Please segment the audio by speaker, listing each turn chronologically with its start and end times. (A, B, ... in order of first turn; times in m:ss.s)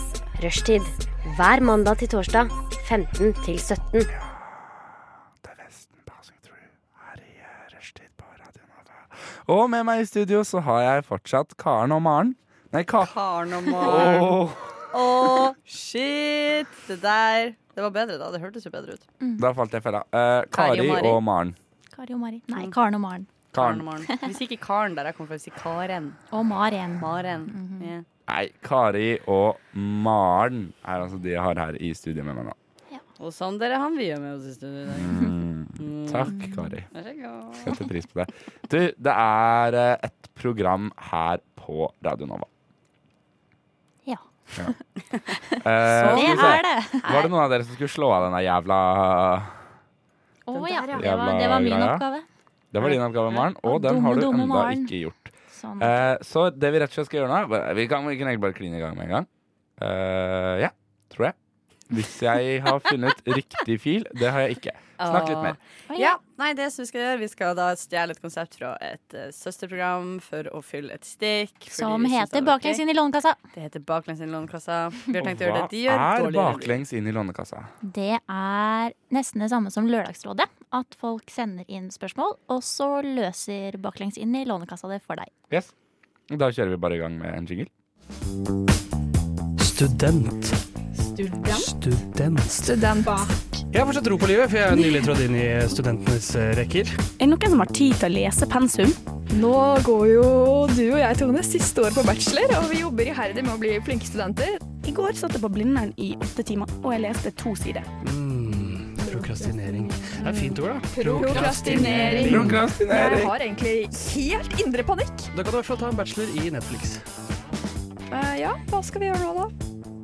0:00.4-0:04.1 A
0:05.4-0:13.2 B
0:13.0-0:19.0 C
0:13.7-0:14.8 B
0:19.2-0:19.5 D
0:19.4-0:21.6 B
0:20.5-0:21.2 C
0:21.9-0:23.3 D
0:23.5-0:23.9 B
0:23.5-0:26.2 C
0:26.3-0:27.9 D
0:27.0-0:28.1 C
0:28.3-0:32.6 B
0:33.2-0:36.4 C
0:34.9-0:36.9 B
0:36.3-0:36.7 D
0:36.9-0:37.8 C
0:37.6-0:42.5 B
0:44.1-0:44.8 D
0:45.5-0:47.3 D
0:45.6-0:49.6 B
0:45.9-0:46.6 C
0:50.5-0:52.3 D
0:50.5-0:51.0 C
0:50.9-0:52.0 B
0:52.7-0:59.3 B
0:53.3-0:54.9 D
0:55.5-0:56.0 D
0:59.8-1:01.4 B
1:01.9-1:05.6 B
1:05.0-1:12.8 C
1:05.9-1:06.2 D
1:11.7-1:13.4 D
1:13.5-1:16.8 C
1:15.2-1:17.7 B
1:17.8-1:25.3 D
1:26.3-1:27.7 B
1:29.6-1:30.6 E
1:31.0-1:31.7 F
1:31.4-1:32.7 E
1:32.5-1:33.4 F
1:33.7-1:37.0 E
1:37.2-1:39.0 G
1:39.3-1:44.8 F
1:44.8-1:47.9 G
1:48.0-1:52.7 E
1:49.0-1:55.3 F
1:52.2-1:53.3 B
1:55.3-1:57.0 E
1:58.1-1:59.5 F